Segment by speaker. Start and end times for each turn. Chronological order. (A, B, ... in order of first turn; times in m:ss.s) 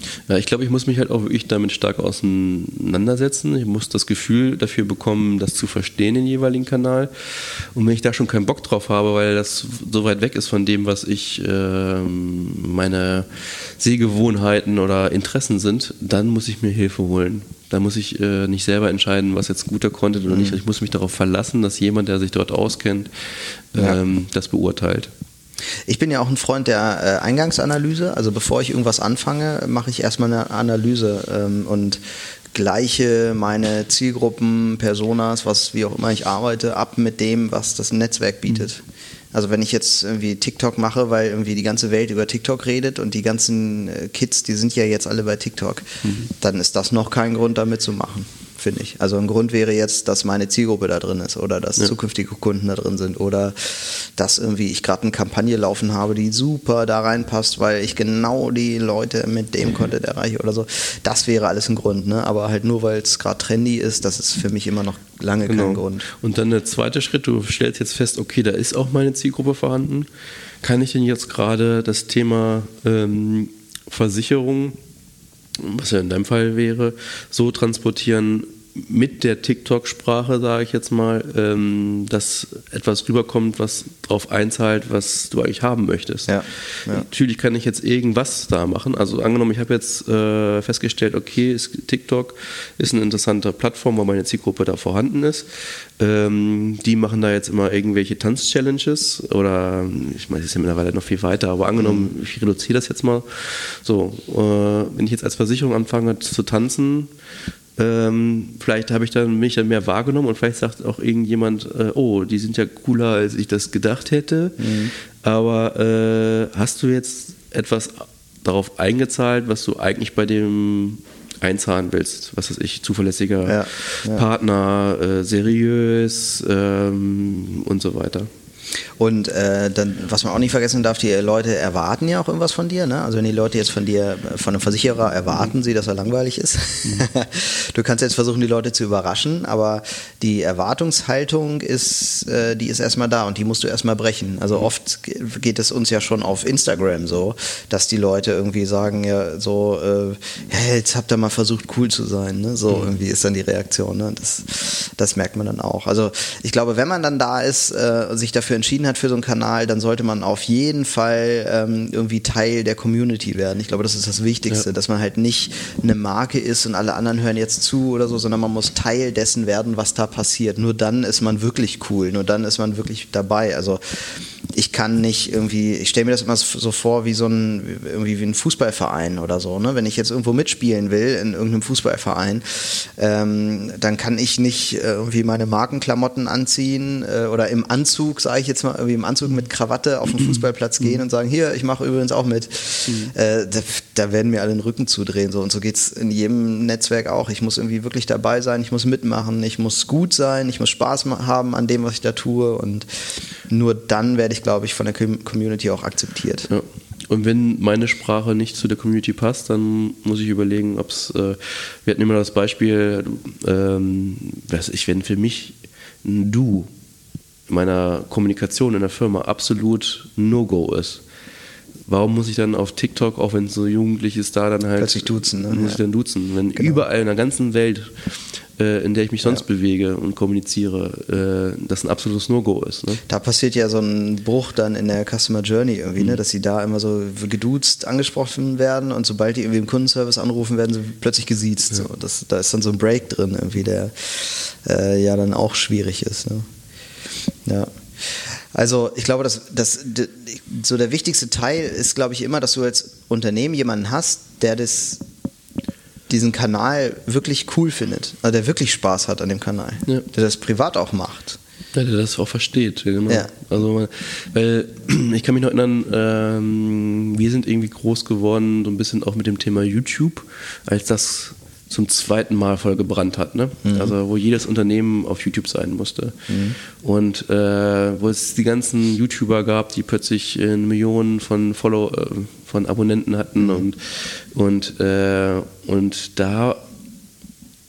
0:00.3-0:23.1 A
0:20.3-0:20.6 B
0:23.7-0:25.1 A
0:25.9-0:32.0 B
0:32.5-0:38.8 B
0:39.3-1:06.0 B
1:05.5-1:10.1 A
1:10.6-1:14.8 A
1:15.6-1:26.3 A
1:26.3-1:27.1 B
1:26.9-1:35.5 A
1:36.0-1:47.1 A
1:41.8-1:42.1 B
1:47.8-1:54.6 A
1:54.6-1:54.9 B
1:55.2-2:08.3 A
2:03.5-2:04.3 B
2:09.0-2:53.8 B
2:54.5-3:22.9 B
3:12.9-3:13.1 A
3:23.5-3:26.5 B
3:26.5-3:36.7 A
3:37.5-3:41.0 A
3:41.9-3:53.0 A
3:44.8-3:45.8 B
3:46.6-3:46.8 B
3:53.1-4:06.5 B
4:07.5-4:15.0 B
4:16.1-4:21.4 B
4:21.7-4:36.2 A
4:23.1-4:23.3 B
4:33.6-4:33.9 B
4:36.3-4:36.6 B
4:36.7-4:46.6 A